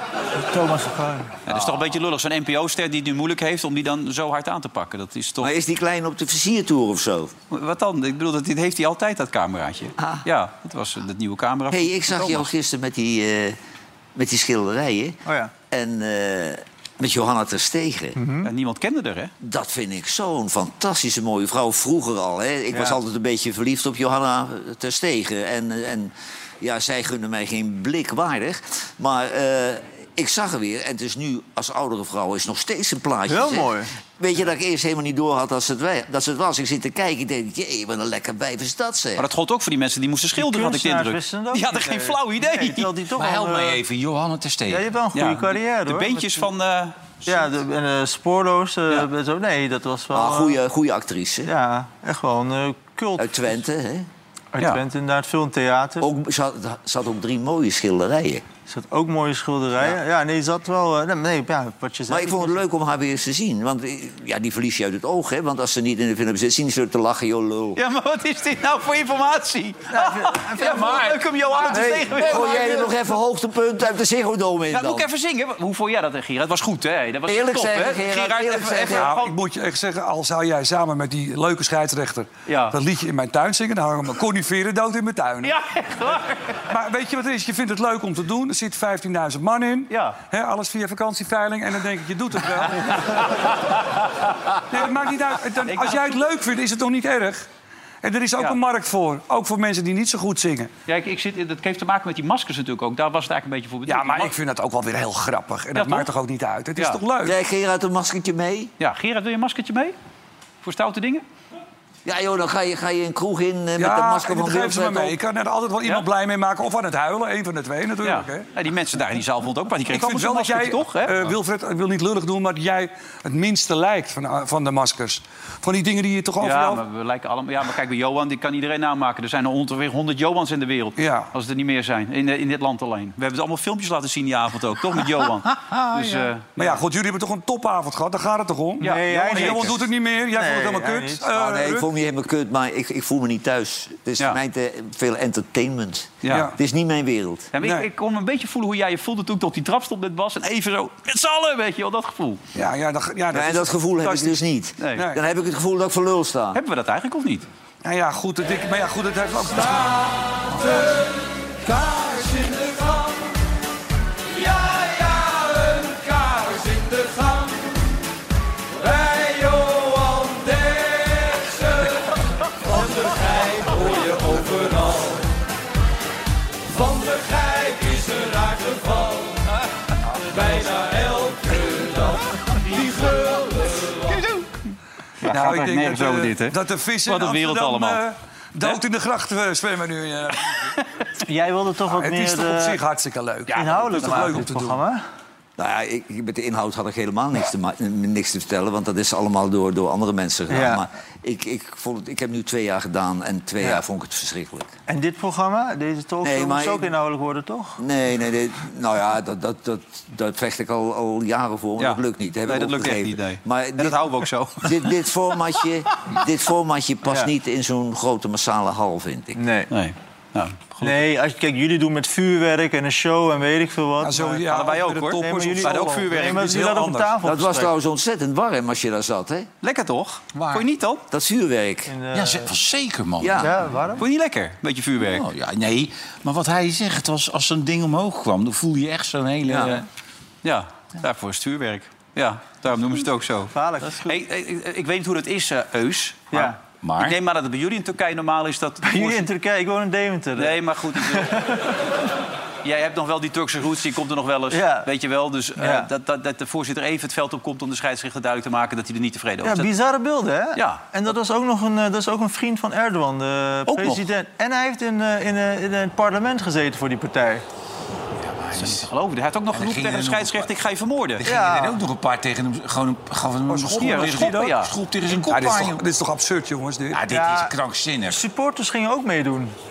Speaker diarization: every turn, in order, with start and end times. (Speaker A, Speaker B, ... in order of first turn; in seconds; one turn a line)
Speaker A: 0.4-1.3
Speaker B: 1.5-5.5
Speaker C: 5.4-7.3
Speaker B: 7.5-12.5
Speaker C: 11.7-13.6
Speaker C: 14.2-15.2
Speaker A: 15.3-15.5
Speaker C: 15.7-18.2
Speaker A: 18.2-18.5
Speaker B: 18.4-19.3
Speaker C: 19.4-39.2
Speaker A: 22.7-23.0
Speaker A: 33.3-33.9
Speaker B: 39.2-42.9
Speaker A: 40.4-43.8
Speaker D: 43.1-44.9
Speaker A: 44.7-46.4
Speaker B: 45.1-47.5
Speaker A: 47.3-50.6
Speaker C: 50.1-51.5
Speaker A: 51.5-53.3
Speaker C: 53.2-54.1
Speaker A: 54.5-56.1
Speaker C: 56.0-58.4
Speaker A: 58.7-62.6
Speaker C: 62.1-67.8
Speaker B: 67.8-72.8
Speaker A: 69.9-71.2
Speaker D: 70.7-71.1
Speaker C: 71.5-75.1
Speaker A: 71.7-72.8
Speaker B: 74.7-79.3
Speaker C: 77.3-79.1
Speaker E: 78.9-85.6
Speaker B: 82.5-82.8
Speaker B: 85.4-86.6
Speaker E: 86.7-93.4
Speaker B: 89.9-90.2
Speaker B: 92.9-93.8
Speaker E: 94.7-97.5
Speaker B: 95.7-96.2
Speaker E: 98.0-100.7
Speaker B: 100.9-104.3
Speaker E: 103.9-107.4
Speaker B: 105.8-106.1
Speaker C: 107.2-108.7
Speaker B: 108.8-110.0
Speaker B: 110.6-111.2
Speaker C: 112.0-115.2
Speaker E: 113.8-118.5
Speaker B: 118.0-121.3
Speaker E: 119.9-126.8
Speaker B: 126.4-136.7
Speaker E: 131.0-131.3
Speaker E: 136.6-141.9
Speaker A: 138.8-139.7
Speaker B: 138.8-139.8
Speaker A: 140.3-141.3
Speaker C: 141.3-147.5
Speaker B: 146.2-146.5
Speaker E: 146.3-146.6
Speaker B: 147.5-152.4
Speaker E: 147.6-147.9
Speaker E: 152.5-154.4
Speaker C: 153.3-156.6
Speaker B: 154.8-155.1
Speaker E: 154.9-155.2
Speaker B: 156.5-157.5
Speaker E: 157.8-160.7
Speaker D: 161.9-162.5
Speaker D: 166.8-167.4
Speaker D: 169.0-171.6
Speaker D: 174.3-175.0
Speaker D: 177.0-179.0
Speaker B: 184.1-184.7
Speaker B: 185.2-188.0
Speaker E: 185.2-190.7
Speaker A: 191.2-192.8
Speaker E: 191.9-194.8
Speaker A: 193.5-195.0
Speaker C: 195.6-204.7
Speaker A: 200.5-200.8
Speaker A: 204.9-207.8
Speaker C: 206.2-206.9
Speaker C: 207.8-214.0
Speaker B: 211.8-215.0
Speaker C: 214.6-219.4
Speaker A: 219.3-219.7
Speaker B: 219.7-221.0
Speaker A: 220.8-224.5
Speaker E: 224.0-227.2
Speaker B: 224.5-226.6
Speaker A: 225.2-227.7
Speaker C: 227.2-229.5
Speaker B: 229.6-231.1
Speaker A: 230.3-230.6
Speaker C: 231.1-231.9
Speaker A: 231.9-232.5
Speaker D: 232.1-233.5
Speaker C: 233.2-233.5
Speaker A: 233.4-234.0
Speaker B: 234.0-235.2
Speaker D: 235.0-239.9
Speaker C: 239.5-239.8
Speaker B: 240.4-249.3
Speaker A: 243.5-244.2
Speaker A: 246.3-246.6
Speaker D: 246.8-247.2
Speaker A: 248.8-251.7
Speaker B: 250.4-251.7
Speaker B: 252.6-259.7
Speaker A: 254.5-254.9
Speaker A: 255.6-255.9
Speaker A: 259.4-267.4
Speaker B: 260.6-260.8
Speaker B: 263.7-264.1
Speaker D: 268.2-268.9
Speaker B: 268.6-271.2
Speaker D: 269.5-270.5
Speaker D: 271.2-275.8
Speaker A: 271.2-271.8
Speaker E: 273.5-274.6
Speaker B: 273.7-274.7
Speaker E: 275.2-277.0
Speaker D: 276.9-278.2
Speaker A: 277.1-277.6
Speaker A: 278.1-279.5